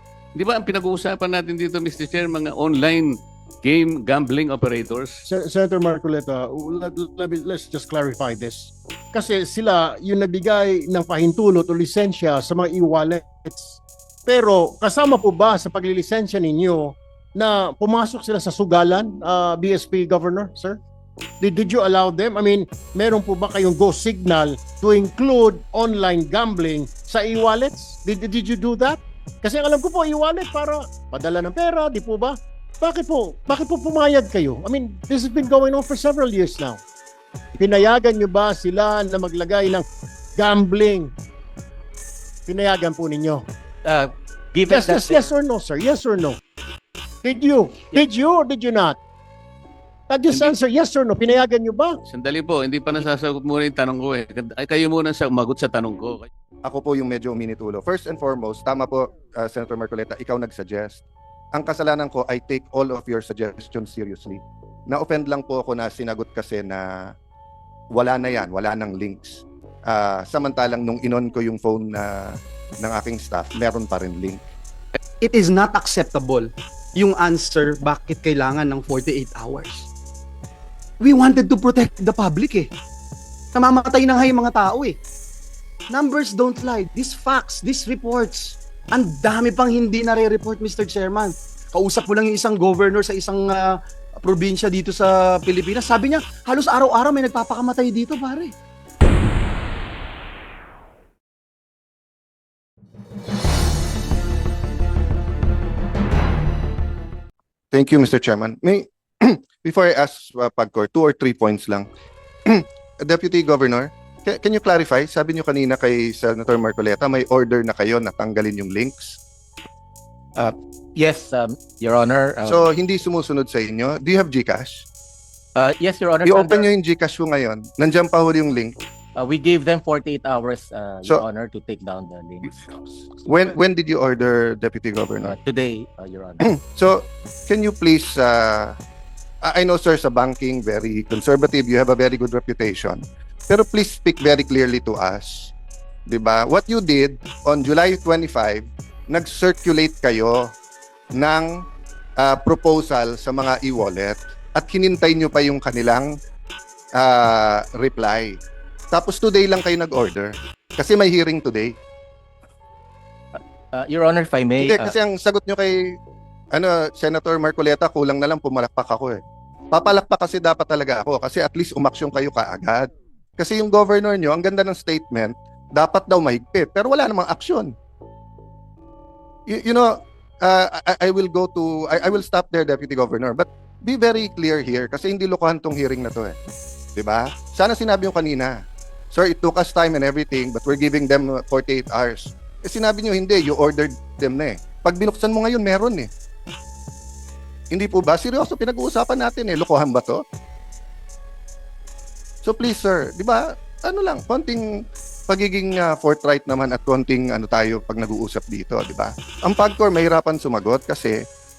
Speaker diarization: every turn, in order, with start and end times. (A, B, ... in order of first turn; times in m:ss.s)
0:00.3-0:05.2 A
0:05.3-0:20.8 B
0:21.4-0:36.8 B
0:37.6-0:39.8 B
0:40.4-0:41.1 B
0:42.5-0:43.4 B
0:43.8-0:45.3 C
0:44.7-0:46.4 B
0:47.2-0:49.0 B
0:50.1-0:52.0 B
0:50.3-0:50.6 A
0:52.1-0:56.3 A
0:56.6-1:01.0 D
1:01.5-1:07.1 D
1:07.9-1:14.4 D
1:15.2-1:19.9 E
1:21.0-1:22.7 E
1:23.5-1:25.0 E
1:25.9-1:33.6 E
1:34.2-1:38.5 E
1:47.7-1:51.9 D
1:52.5-1:59.2 D
2:00.4-2:02.6 C
2:02.4-2:04.8 D
2:05.6-2:06.7 C
2:06.2-2:08.8 D
2:09.2-2:12.5 C
2:13.2-2:15.4 D
2:15.2-2:16.4 C
2:16.4-2:18.7 D
2:19.4-2:25.5 D
2:26.1-2:30.5 D
2:31.1-2:31.5 D
2:32.2-2:36.1 D
2:37.0-2:38.4 D
2:38.9-2:41.8 D
2:43.3-2:44.9 C
2:44.6-2:45.7 D
2:46.5-2:57.7 D
2:59.5-3:06.4 D
3:07.0-3:08.5 D
3:09.1-3:16.1 D
3:17.7-3:20.2 D
3:22.4-3:24.6 D
3:25.3-3:31.2 D